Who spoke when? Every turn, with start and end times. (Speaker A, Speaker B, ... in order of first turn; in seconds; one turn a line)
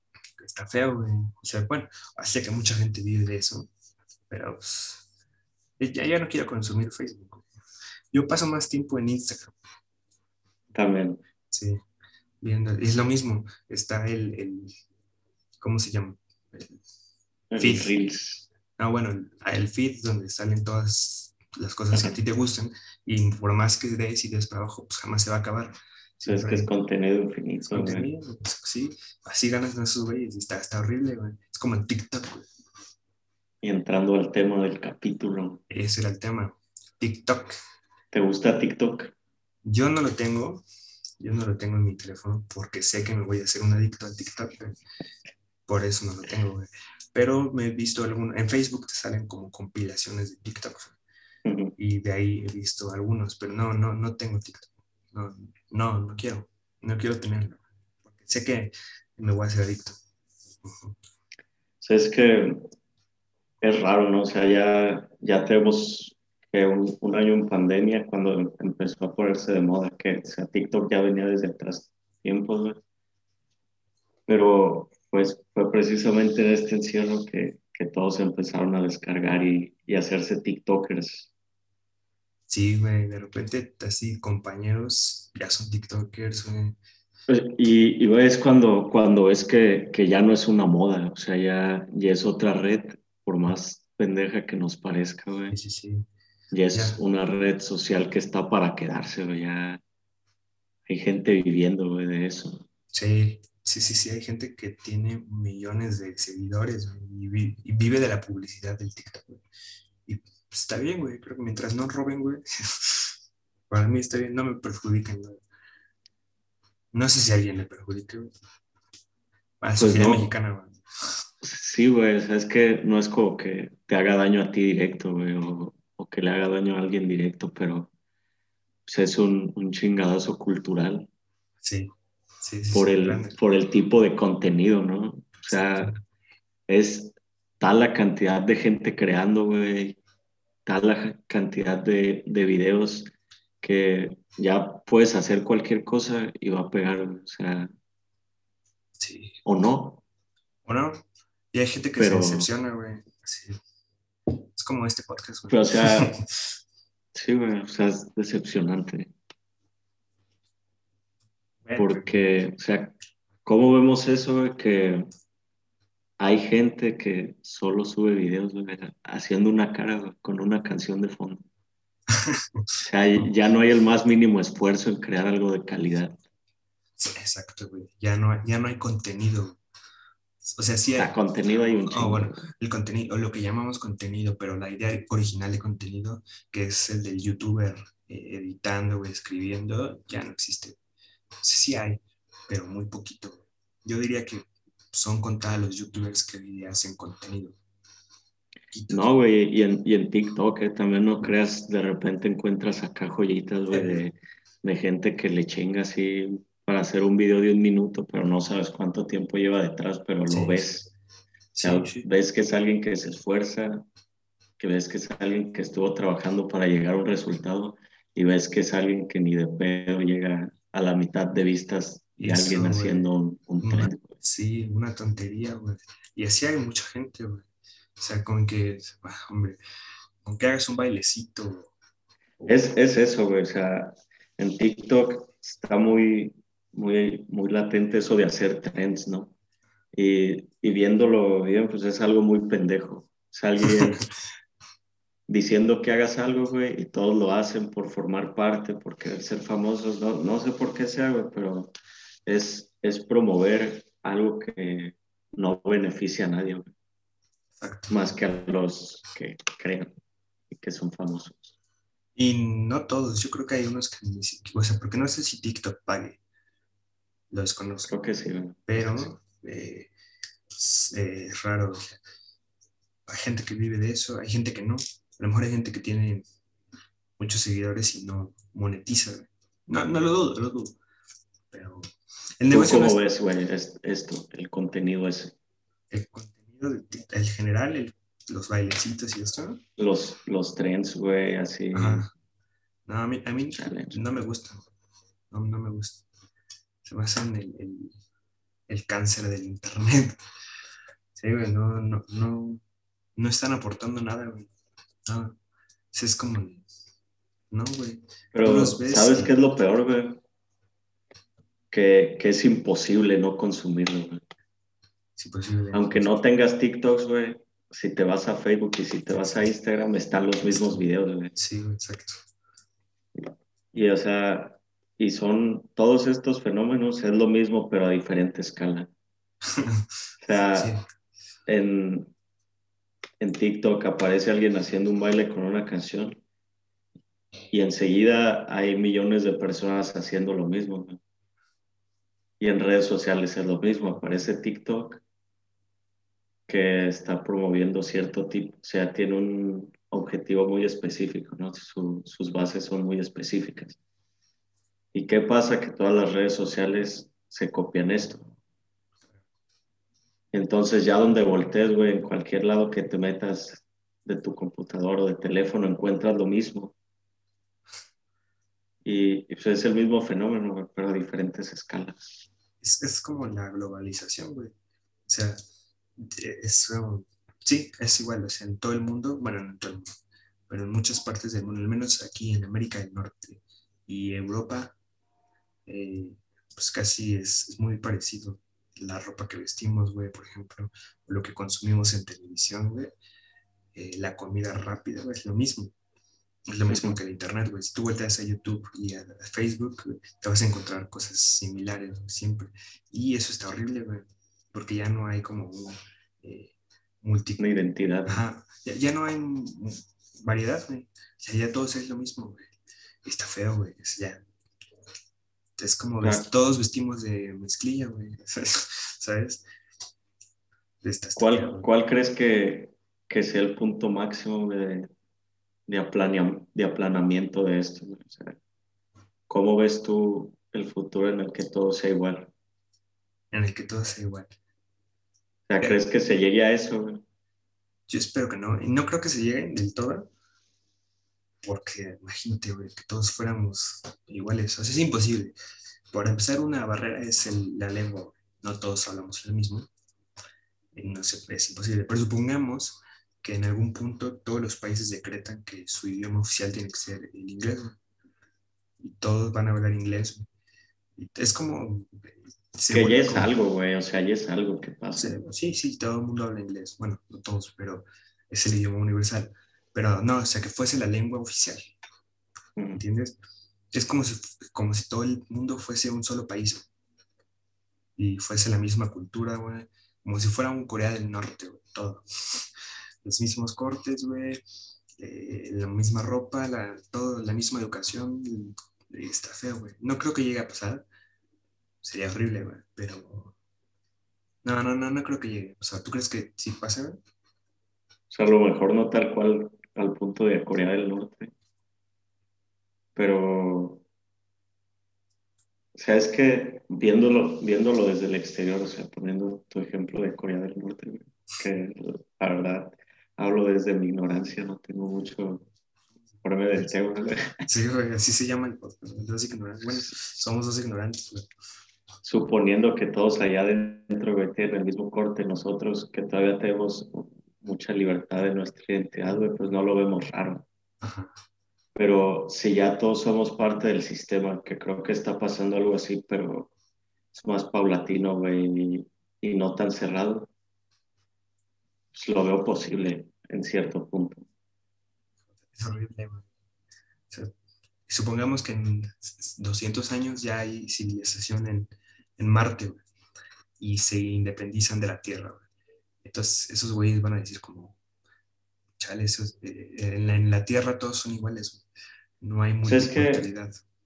Speaker A: 0.4-3.7
Speaker A: 4.3-5.1
Speaker A: 5.8-7.5
Speaker A: 8.1-9.6
Speaker B: 10.7-11.2
Speaker A: 11.5-11.8
Speaker A: 12.4-14.8
Speaker A: 15.6-16.8
Speaker B: 17.5-18.4
Speaker A: 17.6-17.9
Speaker A: 18.8-26.7
Speaker B: 21.9-22.2
Speaker B: 26.3-28.1
Speaker A: 27.7-32.5
Speaker B: 33.6-35.6
Speaker A: 35.7-37.5
Speaker B: 38.1-39.1
Speaker A: 39.6-40.6
Speaker A: 41.2-44.8
Speaker A: 45.7-51.0
Speaker B: 51.5-51.8
Speaker A: 51.8-60.0
Speaker A: 60.6-61.0
Speaker B: 61.8-62.6
Speaker B: 63.6-72.8
Speaker B: 74.3-81.3
Speaker A: 82.5-86.8
Speaker B: 87.3-95.5
Speaker A: 95.5-96.1
Speaker B: 96.5-99.8
Speaker A: 96.7-97.0
Speaker B: 100.9-102.7
Speaker A: 102.9-109.5
Speaker A: 110.1-113.1
Speaker A: 113.7-115.4
Speaker A: 116.9-118.3
Speaker A: 119.6-120.8
Speaker B: 119.8-120.3
Speaker B: 121.4-127.9
Speaker B: 128.9-131.1
Speaker A: 131.6-133.4
Speaker B: 132.7-135.9
Speaker A: 135.5-136.0
Speaker B: 136.7-140.0
Speaker B: 140.7-143.1
Speaker B: 143.6-147.7
Speaker A: 149.0-149.4
Speaker B: 149.4-150.0
Speaker A: 150.7-153.6
Speaker B: 152.0-152.5
Speaker A: 154.5-156.3
Speaker B: 155.5-156.1
Speaker B: 157.1-159.1
Speaker A: 161.6-162.1
Speaker B: 161.8-165.1
Speaker B: 166.2-171.5
Speaker A: 172.2-172.7
Speaker B: 172.8-176.2
Speaker A: 177.0-179.6
Speaker A: 180.4-181.1
Speaker B: 181.0-182.5
Speaker A: 181.8-190.8
Speaker A: 191.4-197.6
Speaker A: 198.7-199.1
Speaker B: 198.9-210.9
Speaker A: 203.7-204.0
Speaker A: 210.3-210.7
Speaker A: 211.6-212.1
Speaker B: 211.6-213.8
Speaker B: 214.6-224.2
Speaker A: 222.2-223.1
Speaker A: 223.6-229.6
Speaker A: 230.2-231.7
Speaker B: 232.4-239.3
Speaker B: 239.9-244.0
Speaker A: 243.6-244.1
Speaker B: 245.3-251.7
Speaker B: 252.3-256.7
Speaker A: 257.6-258.0
Speaker B: 257.9-260.0
Speaker B: 260.5-261.6
Speaker A: 262.2-266.2
Speaker A: 267.3-267.9
Speaker B: 267.9-269.1
Speaker A: 268.7-269.9
Speaker A: 270.6-272.0
Speaker A: 273.1-276.3
Speaker A: 277.2-280.8
Speaker A: 281.5-283.0
Speaker B: 282.5-285.4
Speaker A: 285.9-289.6
Speaker B: 289.8-292.1
Speaker A: 291.7-292.1
Speaker A: 292.9-294.7
Speaker B: 293.6-294.0
Speaker A: 295.3-296.0
Speaker A: 296.8-298.0
Speaker A: 298.7-300.2
Speaker A: 301.1-302.6
Speaker A: 303.2-304.5
Speaker A: 305.1-305.4
Speaker A: 305.9-306.6
Speaker A: 307.5-309.4
Speaker B: 308.3-310.2
Speaker B: 311.7-314.2
Speaker A: 315.2-316.2
Speaker B: 315.7-321.3
Speaker A: 320.6-320.8
Speaker A: 321.4-322.2
Speaker B: 323.1-328.9
Speaker A: 329.5-329.9
Speaker B: 330.2-330.7
Speaker A: 330.5-330.8
Speaker B: 331.5-332.1
Speaker B: 333.2-336.2
Speaker B: 337.5-341.0
Speaker B: 342.4-345.0
Speaker B: 346.5-353.8
Speaker B: 354.9-358.3
Speaker B: 360.3-366.8
Speaker B: 368.9-372.1
Speaker A: 372.6-374.5
Speaker A: 375.1-375.4
Speaker A: 376.0-380.0
Speaker A: 380.5-384.8
Speaker A: 385.7-393.0
Speaker A: 393.8-395.7
Speaker A: 396.5-407.5
Speaker B: 396.7-397.0
Speaker B: 407.4-408.2
Speaker A: 408.1-412.5
Speaker A: 413.1-414.2
Speaker A: 415.6-419.4
Speaker A: 420.8-421.7
Speaker B: 421.2-424.9
Speaker B: 425.7-428.4
Speaker B: 429.3-432.3
Speaker A: 433.3-434.4
Speaker B: 435.5-437.0
Speaker A: 437.9-440.1
Speaker A: 441.4-445.4
Speaker A: 445.9-449.7
Speaker A: 450.8-457.8
Speaker A: 458.8-460.2
Speaker A: 461.0-463.3
Speaker B: 462.7-465.1
Speaker A: 465.0-471.7
Speaker B: 472.6-472.8
Speaker A: 472.8-473.2
Speaker A: 473.7-476.7
Speaker A: 478.0-484.4
Speaker A: 485.0-490.9
Speaker A: 491.8-493.4
Speaker A: 494.4-497.0
Speaker B: 498.1-501.3
Speaker B: 503.0-503.8
Speaker B: 505.8-515.5
Speaker B: 516.2-517.4
Speaker A: 517.5-521.3
Speaker B: 522.0-530.5
Speaker A: 530.8-531.1
Speaker B: 531.8-536.5
Speaker B: 537.1-540.3
Speaker B: 541.9-544.3
Speaker A: 545.5-546.3
Speaker A: 547.9-552.8
Speaker A: 553.6-555.5
Speaker A: 556.0-557.8
Speaker A: 558.8-561.7
Speaker A: 562.2-563.6
Speaker B: 562.6-563.3